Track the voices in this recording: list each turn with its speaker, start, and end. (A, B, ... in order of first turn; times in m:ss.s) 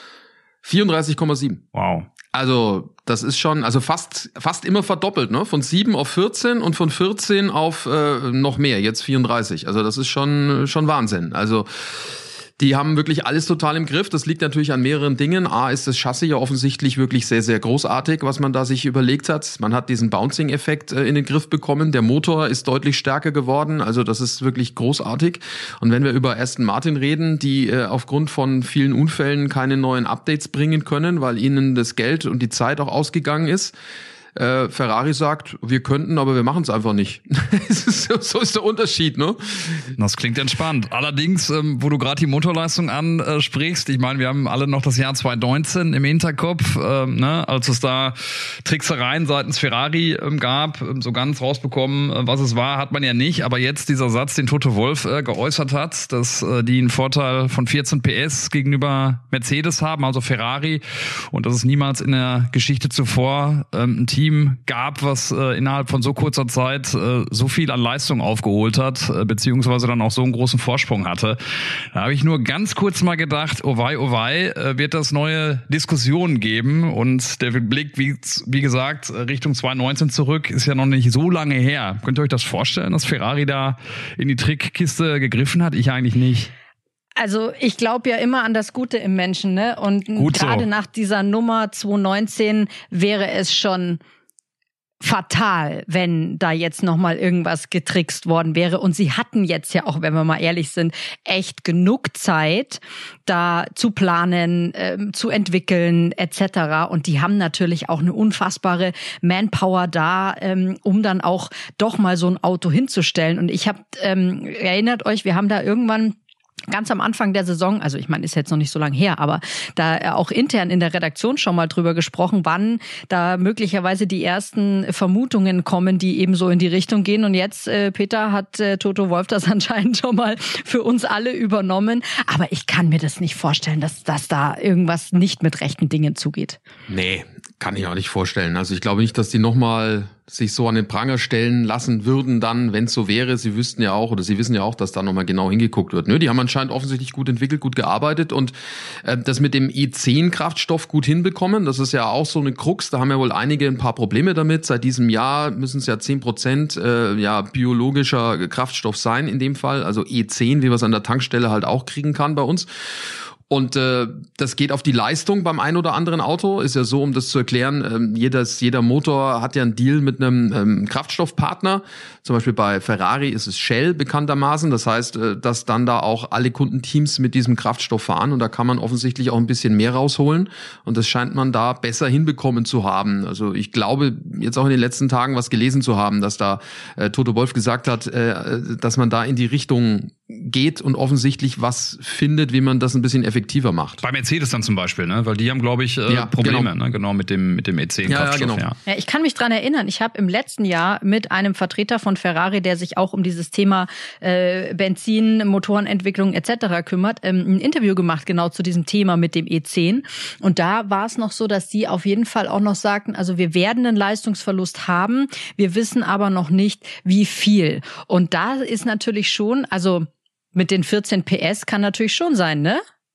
0:00.6-0:01.6 A
0:01.7-0:02.1 B
0:02.3-0:12.1 A
0:12.6-0:33.7 A
0:34.4-0:39.9 A
0:40.0-1:11.4 B
1:11.9-1:26.5 B
1:27.2-1:34.0 C
1:30.2-1:30.7 B
1:35.0-1:56.2 C
1:56.7-2:16.6 C
2:16.9-2:42.7 A
2:43.5-3:14.0 A
3:14.0-3:18.8 B
3:16.1-3:16.7 A
3:18.1-3:18.7 A
3:18.9-3:42.8 C